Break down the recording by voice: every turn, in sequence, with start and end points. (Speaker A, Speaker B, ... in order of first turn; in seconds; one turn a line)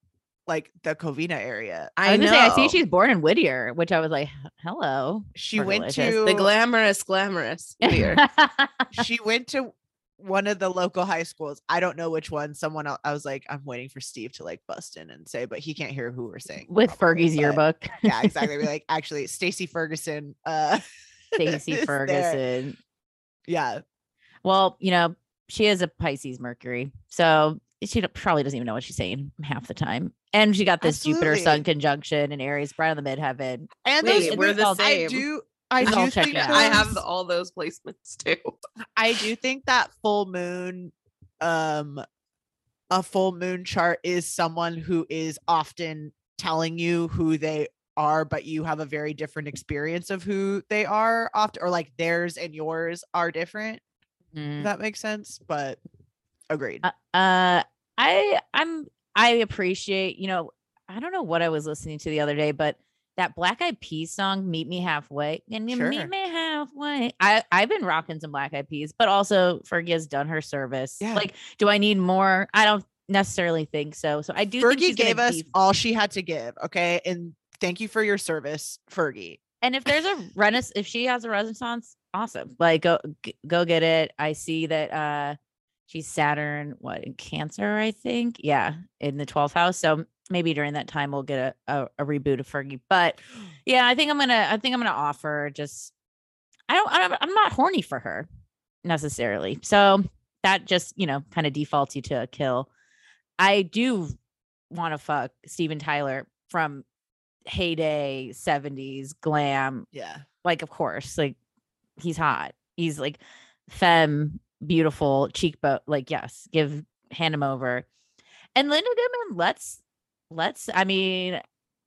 Speaker A: 0.5-1.9
Speaker B: 2.0-2.8
Speaker C: 2.0-6.2
Speaker A: 5.3-6.5
Speaker B: 6.0-8.2
Speaker C: 7.8-9.0
Speaker A: 8.9-22.4
Speaker C: 16.7-18.5
Speaker C: 21.4-22.8
Speaker A: 23.5-23.8
Speaker C: 24.4-34.8
Speaker A: 30.8-31.6
Speaker A: 33.8-37.0
Speaker B: 34.0-35.2
Speaker C: 35.8-36.9
Speaker B: 35.8-38.5
Speaker A: 39.0-42.0
Speaker A: 42.9-53.8
Speaker C: 54.3-54.7
Speaker A: 54.6-55.8
Speaker A: 56.5-56.8
Speaker C: 56.8-75.5
Speaker A: 65.7-66.1
Speaker A: 71.0-71.3
Speaker A: 74.6-79.4
Speaker C: 79.6-85.3
Speaker C: 85.9-95.9
Speaker C: 96.7-98.3
Speaker C: 98.8-102.7
Speaker C: 103.4-104.2
Speaker C: 104.7-106.8
Speaker C: 107.5-109.9
Speaker A: 109.9-110.2
Speaker C: 110.4-111.3
Speaker C: 112.0-117.8
Speaker C: 118.5-121.4